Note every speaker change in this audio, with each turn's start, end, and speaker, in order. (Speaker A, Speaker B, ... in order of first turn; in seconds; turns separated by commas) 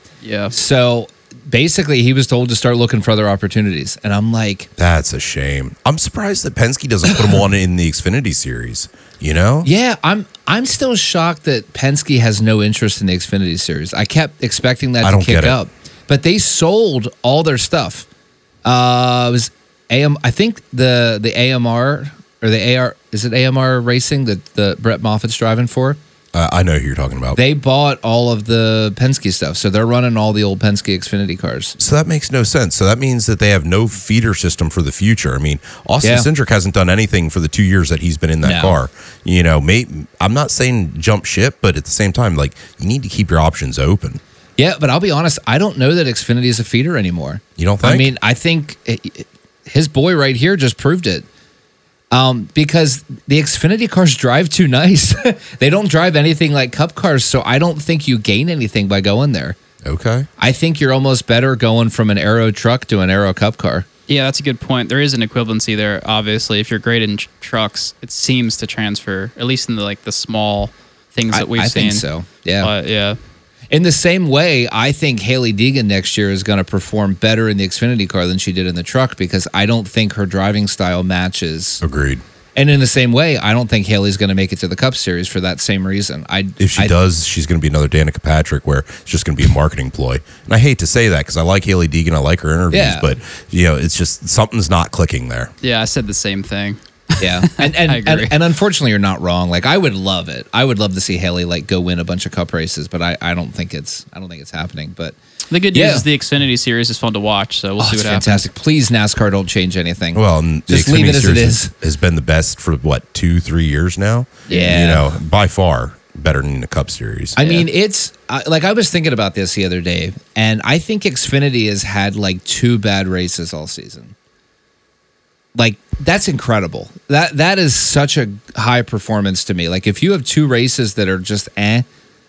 Speaker A: 0.2-0.5, Speaker B: 0.5-4.7, Speaker C: 4.8-9.7, Speaker B: 9.6-18.1, Speaker C: 15.0-15.6, Speaker B: 18.6-26.0, Speaker C: 26.3-27.4, Speaker B: 27.3-31.8, Speaker C: 31.8-44.2, Speaker B: 36.0-36.3, Speaker B: 38.4-38.8, Speaker B: 44.6-51.2, Speaker C: 47.6-48.1, Speaker B: 52.1-59.6, Speaker C: 59.8-60.3, Speaker B: 60.4-63.9, Speaker A: 64.1-72.0, Speaker B: 71.3-72.7, Speaker A: 72.6-73.2, Speaker B: 73.7-81.8, Speaker C: 81.8-82.2, Speaker B: 82.5-86.9, Speaker C: 86.6-95.5, Speaker B: 92.7-93.2, Speaker A: 95.6-98.3, Speaker B: 97.2-105.2, Speaker A: 105.5-108.4, Speaker B: 105.7-106.0, Speaker B: 107.8-111.7, Speaker C: 110.1-117.6, Speaker B: 114.5-115.1, Speaker B: 117.3-124.1, Speaker B: 125.5-131.8